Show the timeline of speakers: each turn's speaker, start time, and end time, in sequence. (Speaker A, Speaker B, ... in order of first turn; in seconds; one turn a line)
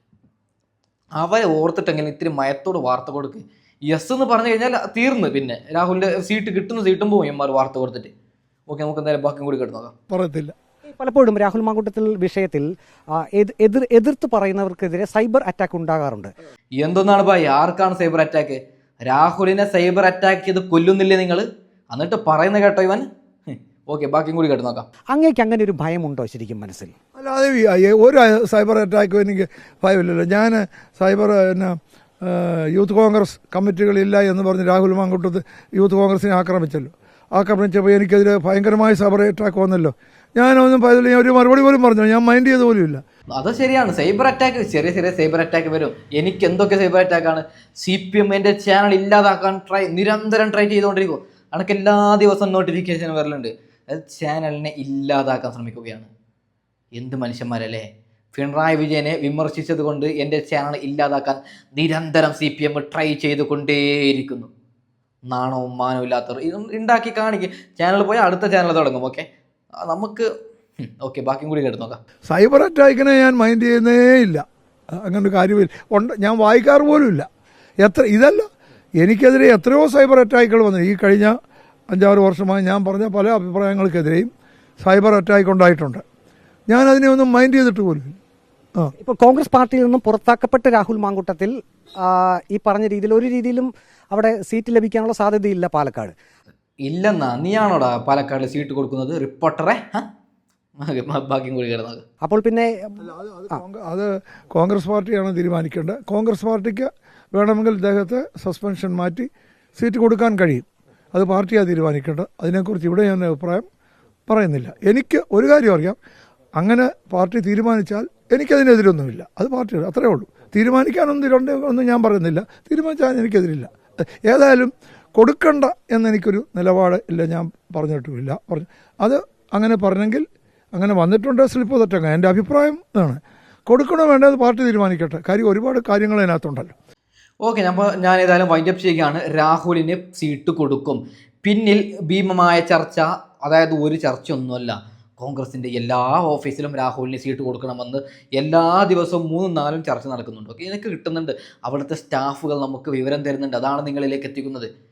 Speaker A: 1.2-8.1
Speaker A: 8.7-9.9
Speaker B: 10.1-10.5
Speaker C: 10.9-12.7
Speaker C: 13.2-16.3
Speaker A: 16.8-24.9
Speaker C: 25.1-26.9
Speaker B: 27.1-43.0
Speaker A: 43.3-56.1
Speaker A: 56.9-64.5
Speaker A: 65.3-69.2
Speaker A: 69.8-70.3
Speaker A: 70.8-72.0
Speaker B: 72.3-77.3
Speaker B: 77.8-78.5
Speaker B: 79.0-81.3
Speaker B: 81.9-84.3
Speaker B: 84.8-86.0
Speaker B: 86.7-88.2
Speaker C: 89.0-96.1
Speaker A: 96.8-100.0
Speaker A: 100.8-102.0
Speaker C: 102.2-103.6
Speaker B: 103.0-113.7
Speaker B: 114.3-116.0
Speaker B: 116.6-123.7
Speaker B: 124.2-130.2
Speaker B: 130.8-136.7
Speaker A: 137.4-154.7